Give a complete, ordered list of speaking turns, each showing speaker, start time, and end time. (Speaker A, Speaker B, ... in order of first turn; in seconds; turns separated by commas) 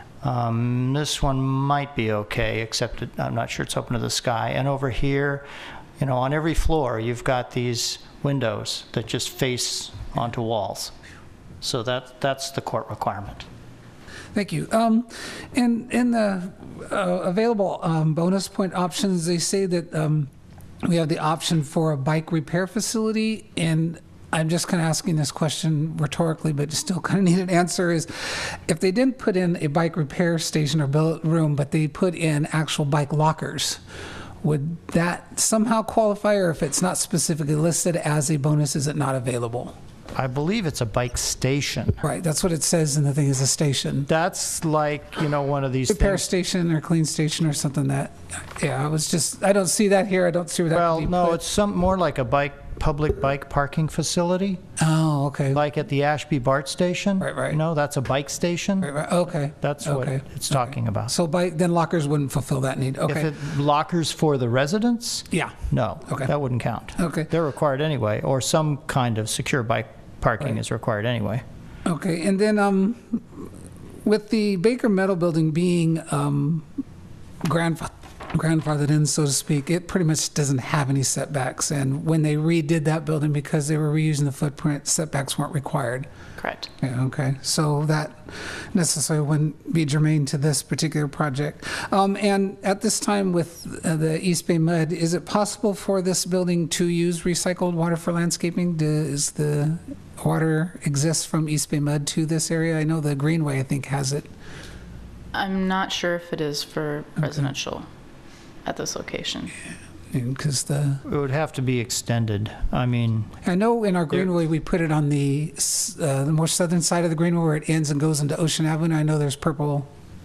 Speaker A: 0.2-5.5, Speaker A: 6.0-10.9, Speaker A: 11.6-13.4, Speaker B: 14.3-20.3, Speaker B: 20.8-33.8, Speaker B: 34.4-39.7, Speaker A: 40.1-42.0, Speaker B: 42.0-44.1, Speaker A: 44.1-46.2, Speaker B: 45.9-51.4, Speaker A: 50.7-54.6, Speaker B: 54.8-55.6, Speaker A: 55.5-58.9, Speaker B: 57.2-57.6, Speaker B: 58.8-63.3, Speaker A: 59.6-61.1, Speaker A: 63.1-71.4, Speaker B: 67.0-67.3, Speaker B: 71.8-73.5, Speaker B: 74.0-76.7, Speaker B: 77.4-86.1, Speaker C: 86.4-86.7, Speaker B: 86.8-104.3, Speaker C: 105.3-107.9, Speaker B: 107.2-107.5, Speaker C: 108.6-109.5, Speaker B: 110.1-111.0, Speaker A: 111.0-113.3, Speaker B: 113.4-119.9